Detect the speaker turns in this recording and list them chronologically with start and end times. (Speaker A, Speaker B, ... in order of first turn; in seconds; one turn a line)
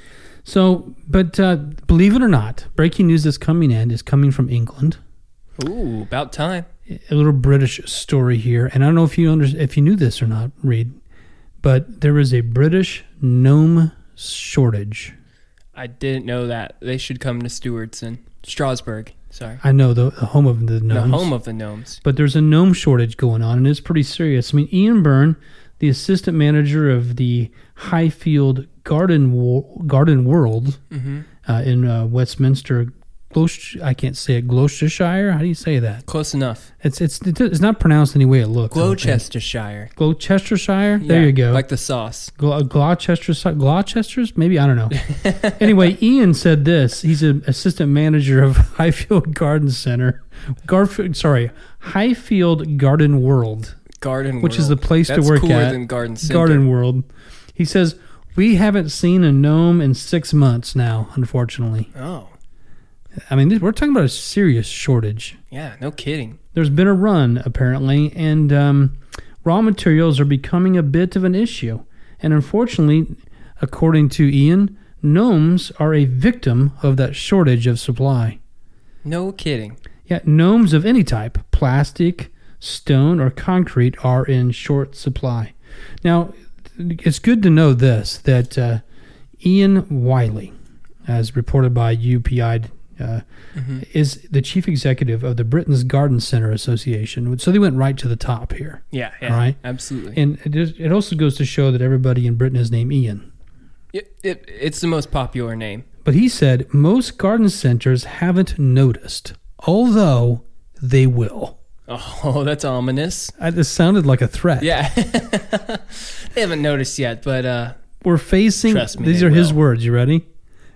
Speaker A: 0.4-5.0
Speaker B: 5.6-6.7
Speaker A: 6.9-11.0
Speaker A: 11.6-15.1
Speaker B: 15.7-19.6
Speaker A: 19.6-21.3
Speaker B: 20.9-22.0
Speaker A: 22.0-30.8
Speaker B: 30.9-31.3
Speaker A: 31.4-36.0
Speaker B: 36.1-36.7
Speaker A: 36.8-39.2
Speaker B: 38.7-39.9
Speaker A: 40.0-41.6
Speaker B: 41.0-42.3
Speaker A: 42.4-53.8
Speaker B: 45.1-45.5
Speaker B: 54.0-56.7
Speaker A: 54.4-61.9
Speaker B: 61.9-62.3
Speaker A: 63.3-65.4
Speaker B: 65.5-66.4
Speaker A: 66.5-78.4
Speaker B: 79.0-79.8
Speaker A: 80.1-88.8
Speaker A: 89.4-90.5
Speaker A: 91.0-93.2
Speaker B: 93.5-93.8
Speaker A: 93.8-99.6
Speaker B: 98.9-100.2
Speaker A: 100.1-103.3
Speaker B: 103.9-105.8
Speaker A: 106.0-111.5
Speaker B: 111.9-113.3
Speaker A: 113.4-114.7
Speaker B: 114.6-117.8
Speaker A: 118.0-120.2
Speaker B: 118.7-119.6